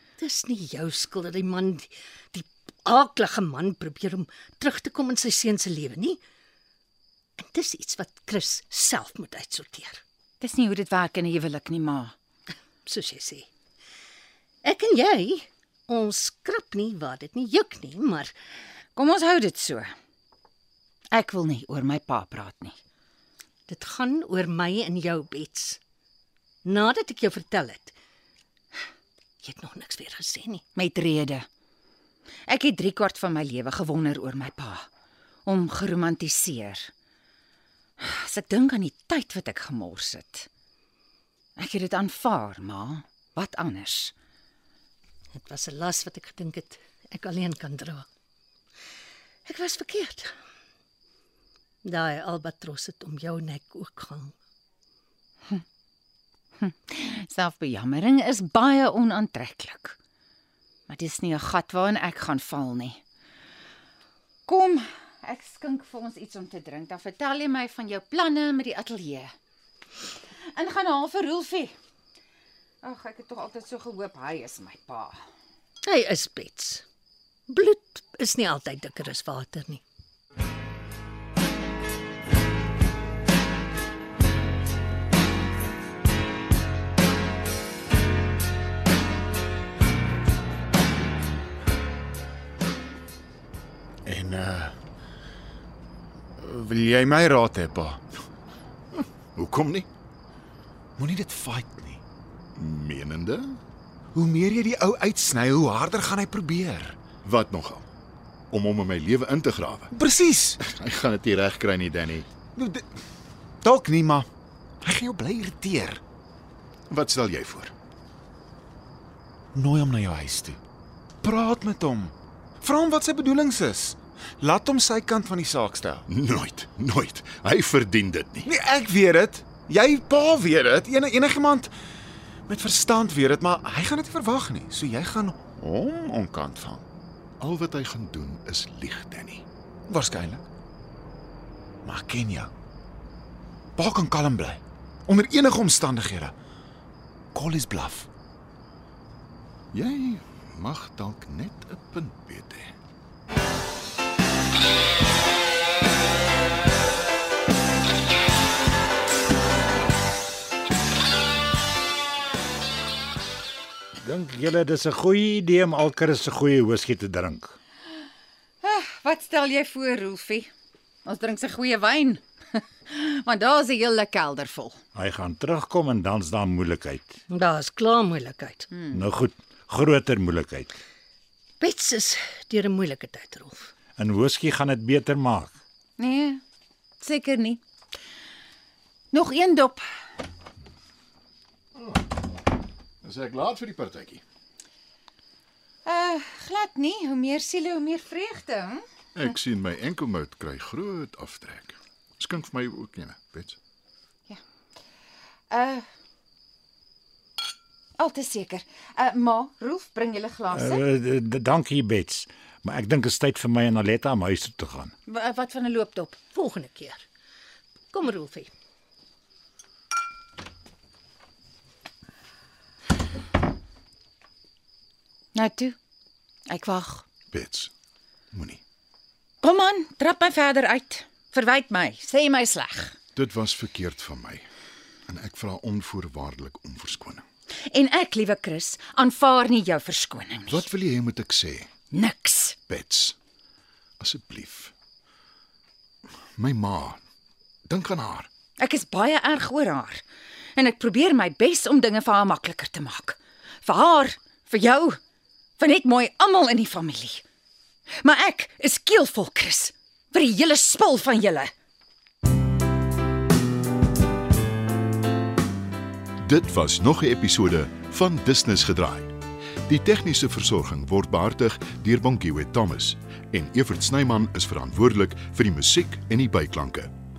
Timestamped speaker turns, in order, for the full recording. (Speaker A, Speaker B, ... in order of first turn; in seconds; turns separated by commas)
Speaker A: 0.2-6.2, Speaker A: 7.4-10.0, Speaker B: 10.4-12.1, Speaker A: 12.9-13.5, Speaker A: 14.6-18.3, Speaker B: 19.0-19.9, Speaker B: 21.1-22.8, Speaker A: 23.7-25.8, Speaker A: 26.6-27.9, Speaker A: 29.4-30.6, Speaker B: 30.8-31.5, Speaker B: 32.5-34.9, Speaker B: 35.5-36.9, Speaker B: 38.0-40.5, Speaker B: 41.6-44.1, Speaker A: 45.4-48.1, Speaker A: 49.5-50.3, Speaker A: 51.8-54.3, Speaker B: 56.6-60.0, Speaker B: 60.9-63.0, Speaker B: 64.5-69.3, Speaker B: 70.5-71.8, Speaker B: 72.8-75.2, Speaker A: 75.8-76.8, Speaker A: 77.5-79.8, Speaker C: 94.0-94.7, Speaker C: 96.4-98.0, Speaker D: 99.0-99.9, Speaker C: 101.0-102.0, Speaker D: 102.6-103.6, Speaker C: 104.1-107.0, Speaker D: 107.2-107.9, Speaker D: 108.5-109.9, Speaker C: 109.9-110.6, Speaker D: 110.6-112.3, Speaker C: 112.5-112.9, Speaker C: 113.6-114.3, Speaker C: 114.8-116.0, Speaker D: 116.9-117.7, Speaker C: 119.5-120.6, Speaker C: 121.2-126.1, Speaker D: 126.1-128.5, Speaker C: 128.5-131.7, Speaker C: 132.5-136.8, Speaker D: 137.4-139.4, Speaker C: 139.9-140.4, Speaker C: 141.8-142.5, Speaker C: 143.8-146.3, Speaker C: 147.3-148.1, Speaker D: 149.7-152.7, Speaker E: 164.0-167.6, Speaker B: 168.6-170.5, Speaker B: 171.1-174.8, Speaker E: 174.9-177.1, Speaker A: 177.3-178.8, Speaker B: 178.7-179.1, Speaker E: 178.9-180.8, Speaker A: 181.6-183.7, Speaker E: 184.0-185.5, Speaker B: 186.0-186.4, Speaker B: 187.0-187.6, Speaker B: 189.1-189.8, Speaker D: 193.0-194.2, Speaker B: 195.8-198.8, Speaker D: 199.2-203.6, Speaker B: 205.5-205.8, Speaker B: 208.0-210.8, Speaker E: 210.5-214.9, Speaker B: 215.1-216.2, Speaker A: 216.3-217.1, Speaker A: 217.9-218.5, Speaker B: 225.3-225.8, Speaker B: 226.5-227.1, Speaker D: 227.3-227.7, Speaker D: 228.3-228.6, Speaker B: 229.4-233.0, Speaker D: 233.2-234.4, Speaker D: 235.1-237.2, Speaker B: 237.7-240.7, Speaker D: 240.5-241.7, Speaker B: 241.9-242.6, Speaker D: 242.7-243.2, Speaker D: 244.0-244.7, Speaker D: 246.4-247.0, Speaker D: 247.7-248.3, Speaker B: 248.6-250.0, Speaker B: 250.6-255.0, Speaker B: 255.6-257.2, Speaker B: 258.0-261.5, Speaker D: 266.2-269.1, Speaker D: 269.7-276.9